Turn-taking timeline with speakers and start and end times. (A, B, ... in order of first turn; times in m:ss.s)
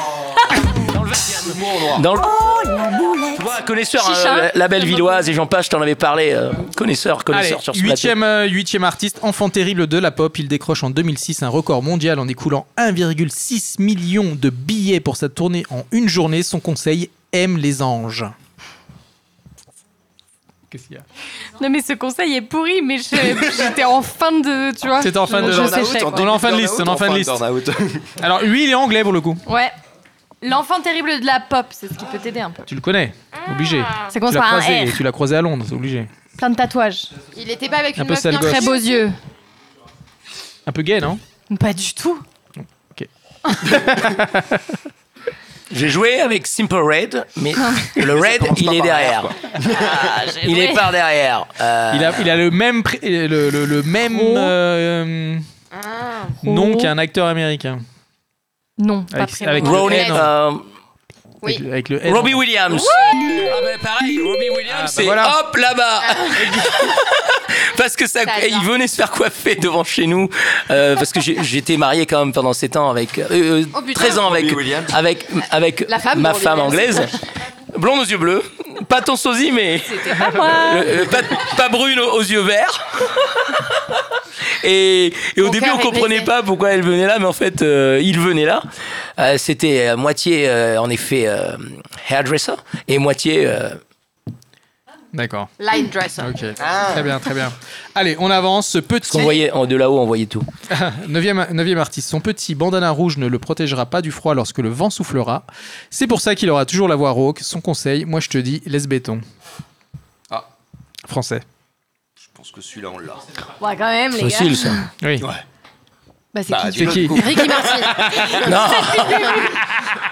0:00.8-0:02.6 A
0:01.4-0:02.0 B
0:03.3-0:08.1 A
0:04.0-0:05.1 C
0:07.3-0:18.3 D
0:20.7-0:21.0 D
0:21.6-0:26.3 C
0:25.0-0:27.4 D
0:25.3-0:28.1 B
0:28.2-0:29.4 D
0:29.4-0:29.7 C
0:30.4-0:32.7 C
0:32.7-0:36.1 D
0:34.1-0:35.0 C
0:36.4-0:37.1 C
0:37.3-0:39.1 E
0:38.0-0:38.8 D
0:38.4-0:39.2 C
0:40.7-0:41.2 D
0:41.5-0:42.2 C
0:42.9-0:44.8 D
0:45.7-0:52.3 A
0:47.6-0:47.9 C
0:48.0-0:50.1 B
0:50.4-0:50.8 C
0:51.9-0:55.4 D
0:54.1-0:54.5 C
0:56.4-0:56.9 C
0:56.4-0:57.8 D
0:58.8-1:00.1 C
0:59.1-1:00.3 D
0:59.6-1:00.6 A
0:59.8-1:00.2 E
1:01.4-1:02.4 D
1:02.0-1:17.1 A
1:02.7-1:03.5 C
1:03.2-1:03.5 E
1:04.7-1:05.4 D
1:06.4-1:06.6 D
1:08.2-1:08.7 E
1:13.7-1:14.2 E
1:14.1-1:14.9 B
1:15.9-1:17.1 E
1:17.7-1:23.5 A
1:19.9-1:20.4 E
1:20.1-1:21.0 C
1:24.6-1:28.6 A
1:25.4-1:26.3 E
1:29.2-1:33.8 A
1:35.1-1:35.5 D
1:35.6-1:36.4 E
1:36.2-1:39.4 D
1:36.6-1:37.2 B
1:39.0-1:40.5 A
1:40.7-1:49.2 D
1:51.1-1:51.4 D
1:52.2-1:53.2 B
1:53.6-1:54.8 C
1:54.1-1:54.8 A
1:55.0-1:55.3 D
1:56.3-1:57.9 C
1:56.5-1:58.6 B
1:56.5-1:58.0 E
1:56.8-1:57.4 D
1:58.4-1:59.4 A
1:58.9-1:59.4 C